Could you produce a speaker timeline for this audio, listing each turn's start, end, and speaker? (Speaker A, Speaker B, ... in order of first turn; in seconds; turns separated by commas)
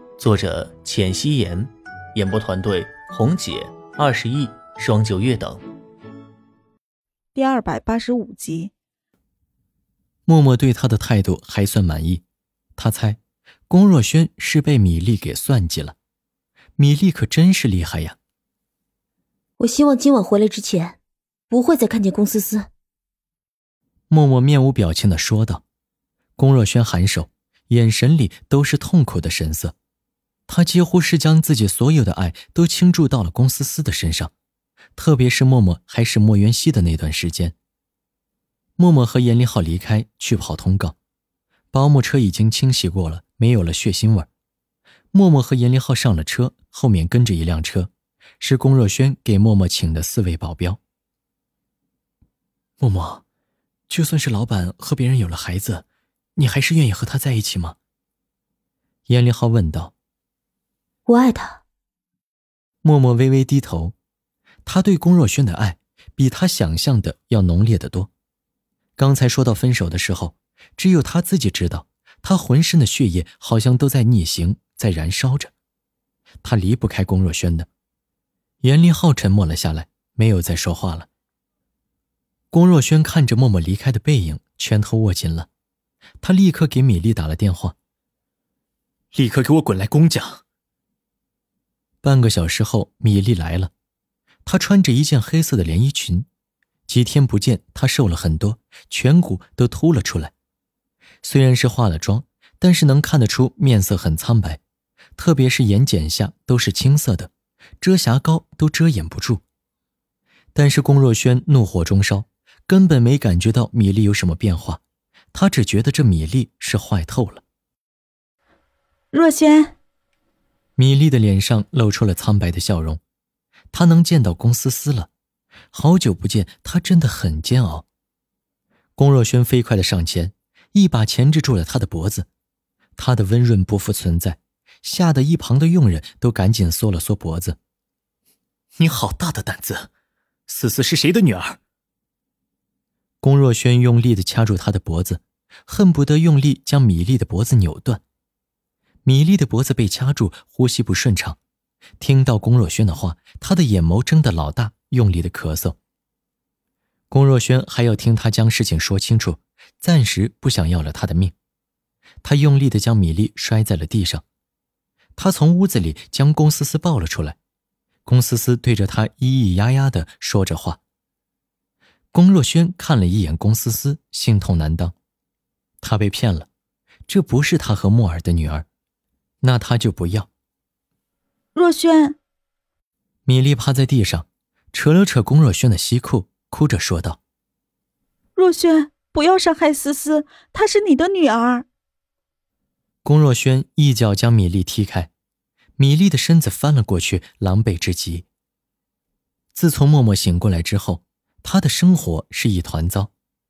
Speaker A: 0.2-5.6, Speaker B: 7.3-8.7, Speaker C: 10.2-12.2, Speaker C: 12.8-15.9, Speaker C: 16.8-18.2, Speaker D: 19.6-21.0, Speaker D: 21.5-22.7, Speaker C: 24.1-25.6, Speaker C: 26.4-29.7, Speaker C: 30.5-34.3, Speaker C: 35.0-37.5, Speaker C: 38.8-41.0, Speaker C: 41.7-44.3, Speaker C: 45.1-50.8, Speaker C: 52.8-53.2, Speaker C: 53.9-57.8, Speaker C: 59.1-59.9, Speaker D: 61.1-61.6, Speaker C: 62.8-63.9, Speaker C: 64.7-68.1, Speaker C: 69.0-75.5, Speaker C: 76.4-77.7, Speaker C: 78.6-81.1, Speaker C: 82.5-85.5, Speaker C: 86.2-87.8, Speaker C: 89.1-90.4, Speaker C: 92.0-93.7, Speaker C: 94.5-96.3, Speaker C: 96.9-100.3, Speaker C: 101.2-104.6, Speaker C: 105.2-109.4, Speaker C: 110.5-114.8, Speaker C: 115.3-117.4, Speaker B: 119.1-119.7, Speaker C: 120.8-123.0, Speaker C: 123.7-125.1, Speaker C: 125.7-127.8, Speaker C: 129.0-132.3, Speaker C: 133.0-137.6, Speaker C: 138.8-139.9, Speaker C: 140.5-141.6, Speaker C: 143.2-148.0, Speaker C: 149.0-151.4, Speaker C: 152.0-155.8, Speaker C: 157.1-161.3, Speaker C: 162.2-164.2, Speaker C: 165.2-167.4, Speaker C: 168.1-170.8, Speaker C: 172.1-174.9, Speaker C: 175.8-176.5, Speaker C: 177.1-178.7, Speaker C: 179.4-180.3, Speaker B: 181.5-182.2, Speaker C: 183.3-187.2, Speaker B: 188.3-191.7, Speaker C: 193.0-195.1, Speaker C: 195.8-198.2, Speaker C: 199.5-203.1